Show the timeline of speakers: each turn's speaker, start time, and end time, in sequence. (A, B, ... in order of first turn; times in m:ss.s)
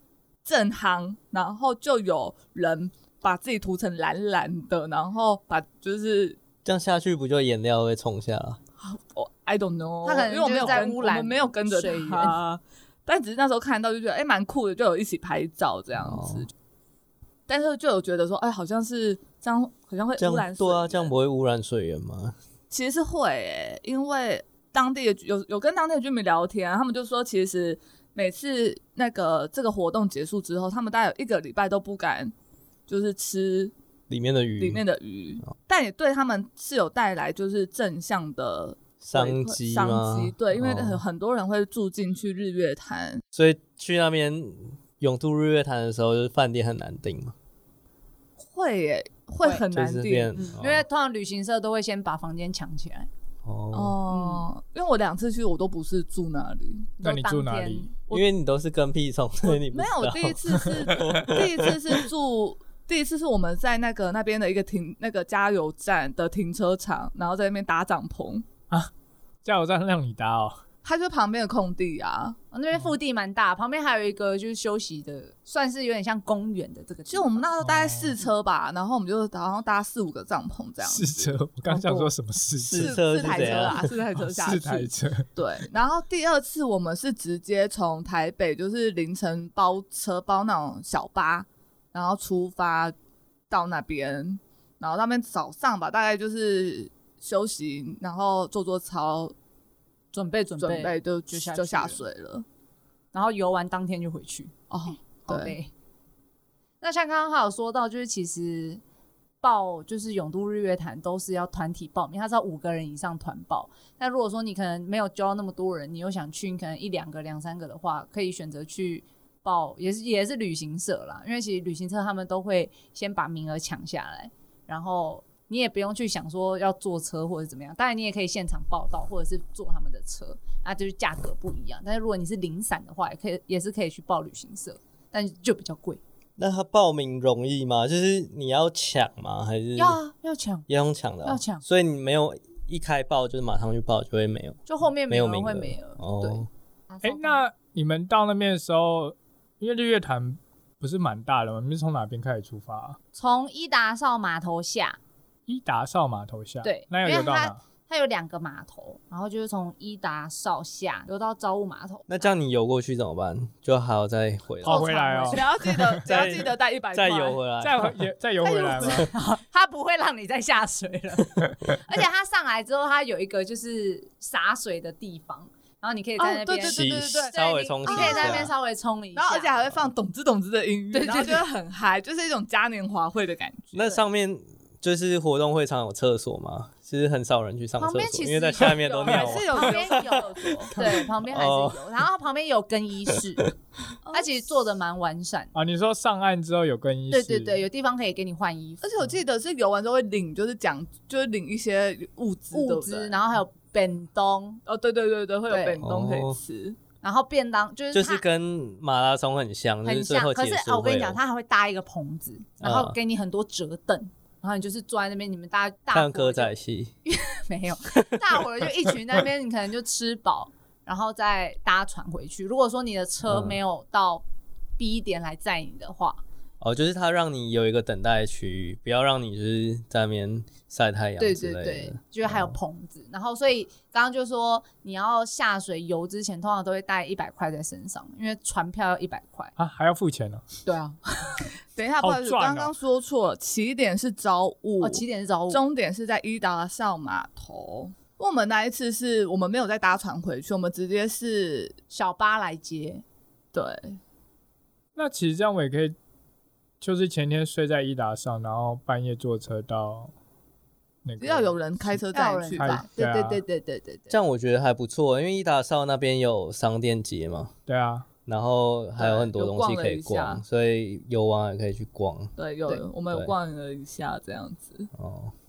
0:00.4-0:06.4 A
0:06.6-0:08.6 B
0:08.8-0:16.5 A
0:10.0-0:12.4 C
0:16.0-0:16.5 B
0:17.5-0:21.1 A
0:20.2-0:22.4 B
0:22.7-0:32.3 A
0:32.9-0:33.7 A
0:34.1-0:34.8 B
0:34.6-0:43.2 A
0:39.0-0:41.0 B
0:43.3-0:47.3 B
0:48.5-0:50.3 A
0:49.7-0:50.8 B
0:50.4-0:53.1 C
0:53.4-0:54.0 B
0:53.7-0:56.9 A
0:54.1-0:54.5 C
0:57.0-0:57.9 C
0:57.0-0:57.9 D
0:58.1-1:01.7 B
0:59.4-1:08.4 A
1:00.5-1:01.2 D
1:09.4-1:10.6 D
1:10.8-1:12.4 A
1:12.5-1:17.4 C
1:17.1-1:21.3 A
1:17.6-1:18.2 D
1:20.8-1:25.2 D
1:21.7-1:22.1 C
1:22.6-1:23.9 B
1:22.7-1:32.9 A
1:33.5-1:39.3 A
1:40.1-1:42.0 C
1:40.6-1:42.4 A
1:43.1-1:44.5 C
1:44.7-1:45.6 A
1:45.1-1:45.7 C
1:46.8-1:48.8 C
1:49.4-2:16.0 C
2:16.4-2:20.0 B
2:19.8-2:20.7 C
2:20.7-2:26.5 B
2:21.2-2:21.6 C
2:24.6-2:27.4 C
2:27.0-2:33.0 D
2:33.1-2:35.0 C
2:35.5-2:37.6 D
2:36.6-2:42.3 C
2:42.1-2:44.9 B
2:44.6-2:45.5 C
2:44.6-2:46.0 D
2:45.3-2:47.4 A
2:46.0-2:48.0 B
2:47.6-2:49.1 D
2:48.4-2:49.0 A
2:48.4-2:59.6 C
2:56.2-2:58.5 A
2:56.6-2:58.5 B
2:59.1-3:04.0 A
3:00.9-3:01.4 C
3:03.7-3:11.8 B
3:07.8-3:13.4 C
3:08.8-3:10.8 A
3:14.0-3:14.5 A
3:14.1-3:15.5 C
3:15.5-3:17.6 D
3:17.1-3:18.8 C
3:18.8-3:23.2 A
3:22.5-3:24.6 C
3:24.6-3:26.8 A
3:25.5-3:25.8 C
3:25.8-3:26.4 B
3:27.0-3:28.2 C
3:27.9-3:31.2 B
3:29.8-3:36.5 C
3:32.6-3:33.0 B
3:35.9-3:36.9 B
3:37.0-3:44.2 C
3:43.2-3:43.6 B
3:44.8-3:46.2 C
3:46.6-3:52.6 B
3:51.2-3:59.5 C
3:59.6-4:00.4 D
4:00.6-4:01.5 C
4:01.8-4:11.7 A
4:02.0-4:02.7 D
4:04.8-4:05.6 C
4:11.9-4:13.0 C
4:13.5-4:14.0 A
4:15.0-4:16.0 D
4:16.8-4:20.1 D
4:21.0-4:22.0 D
4:21.2-4:22.8 A
4:22.1-4:24.2 C
4:22.6-4:23.4 D
4:24.1-4:27.5 B
4:27.7-4:28.1 D
4:28.2-4:32.3 B
4:29.0-4:30.4 A
4:32.4-4:34.9 A
4:34.9-4:35.3 B